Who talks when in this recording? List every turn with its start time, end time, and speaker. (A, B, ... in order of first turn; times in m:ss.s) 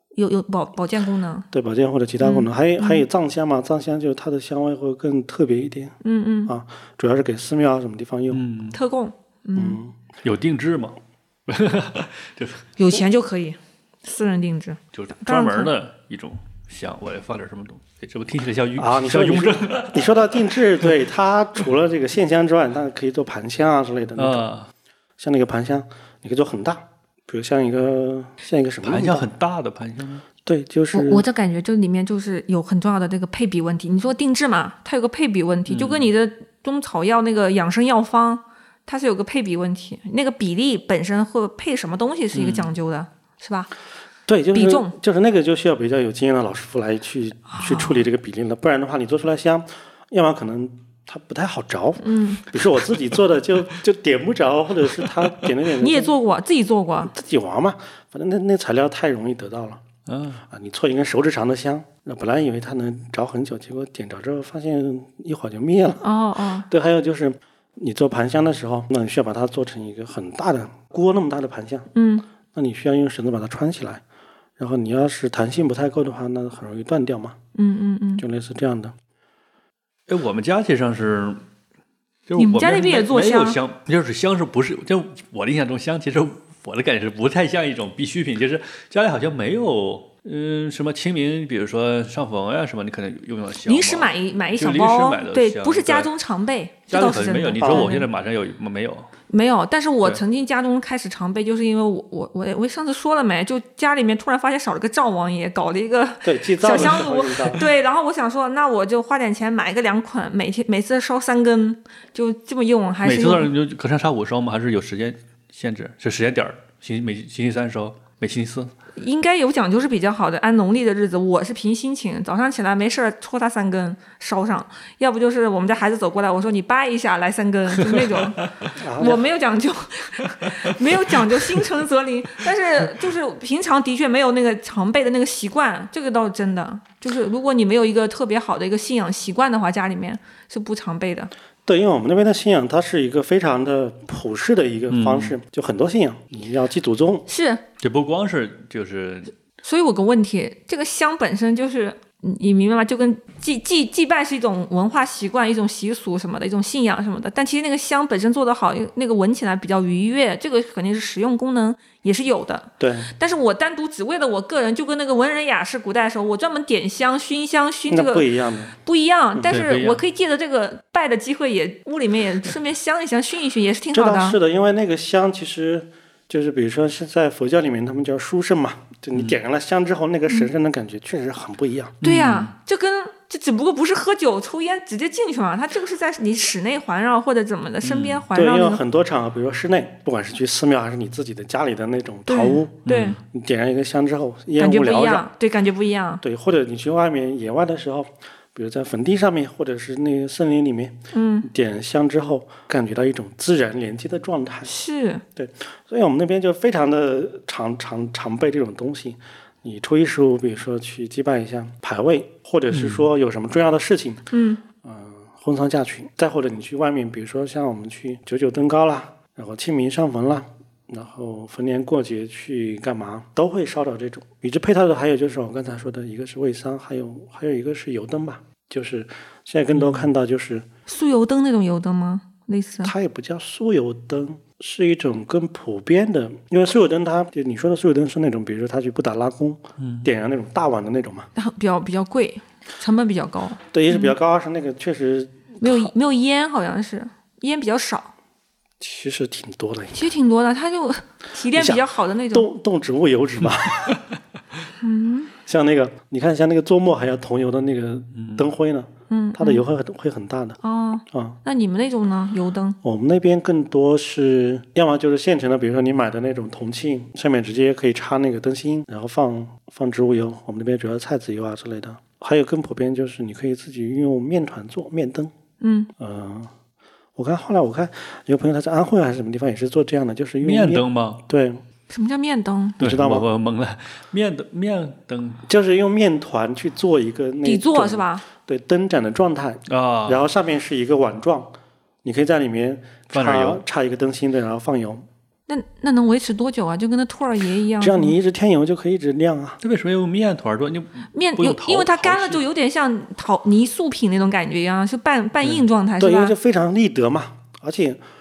0:00.2-0:01.5 A
0:01.5-0:06.0 B
0:02.2-0:03.1 A
0:06.0-0:06.5 A
0:06.5-0:08.4 B
0:08.3-0:08.8 C
0:08.7-0:09.8 A
0:09.6-0:10.0 B
0:10.2-0:12.7 C
0:12.8-0:15.7 A
0:14.9-0:20.9 C
0:18.8-0:24.5 B
0:24.2-0:24.7 C
0:25.2-0:29.3 B
0:28.8-0:30.2 C
0:30.4-0:31.2 B
0:30.9-0:43.7 A
0:35.7-0:36.1 C
0:42.3-0:42.7 C
0:44.3-0:56.1 B
0:44.5-0:44.9 A
0:47.5-0:48.0 A
0:52.0-0:52.4 A
0:55.8-0:57.1 A
0:57.1-0:59.8 B
1:00.1-1:00.4 C
1:00.5-1:06.0 B
1:06.0-1:06.7 A
1:06.7-1:11.9 B
1:12.0-1:12.3 A
1:12.5-1:14.0 B
1:14.6-1:17.4 B
1:17.6-1:18.2 A
1:18.2-1:18.9 B
1:20.1-1:21.5 C
1:22.3-1:36.1 C
1:22.4-1:23.6 A
1:33.6-1:38.1 A
1:36.9-1:39.1 C
1:37.6-1:37.9 B
1:39.3-1:53.5 A
1:46.2-1:47.6 B
1:46.8-1:47.1 C
1:53.0-1:58.7 C
1:59.0-2:08.5 A
2:07.8-2:08.7 C
2:08.7-2:09.2 B
2:09.0-2:21.3 A
2:10.2-2:11.7 C
2:21.7-2:27.2 B
2:24.9-2:25.4 C
2:27.3-2:27.6 A
2:27.8-2:29.3 C
2:29.6-2:54.4 A
2:42.8-2:43.1 B
2:47.9-2:48.8 B
2:49.5-2:50.0 C
2:53.9-3:02.0 B
3:02.0-3:02.5 C
3:02.0-3:08.8 A
3:07.8-3:08.3 C
3:08.3-3:12.8 B
3:12.3-3:13.2 A
3:12.9-3:13.2 C
3:13.3-3:15.3 B
3:14.6-3:16.2 A
3:16.2-3:24.7 B
3:21.1-3:21.5 A
3:24.7-3:25.2 A
3:25.4-3:34.3 B
3:32.7-3:33.0 C
3:34.3-3:34.6 A
3:34.8-3:50.7 B
3:49.7-3:50.1 C
3:50.9-3:52.9 A
3:52.8-4:01.3 B
3:59.8-4:00.1 C
4:01.4-4:04.2 A
4:03.7-4:05.9 B
4:05.6-4:08.1 A
4:08.8-4:10.1 B
4:09.9-4:12.5 A
4:11.5-4:14.0 B
4:14.8-4:15.3 A
4:15.5-4:20.6 B
4:18.2-4:18.4 C
4:19.1-4:19.6 A
4:20.6-4:22.8 A
4:21.1-4:21.4 B
4:22.8-4:35.3 B
4:35.6-4:35.9 A
4:36.0-4:36.5 B
4:37.2-4:41.6 B
4:40.4-4:41.2 C
4:41.9-4:42.8 A
4:42.8-4:45.5 C
4:42.8-4:43.2 B
4:45.5-4:55.1 B
4:47.4-4:48.2 A
4:49.7-4:50.2 C
4:53.1-4:53.6 C
4:55.5-4:58.2 A
4:57.8-4:59.6 B
4:59.6-5:02.4 C
5:01.1-5:06.4 A
5:06.0-5:08.0 B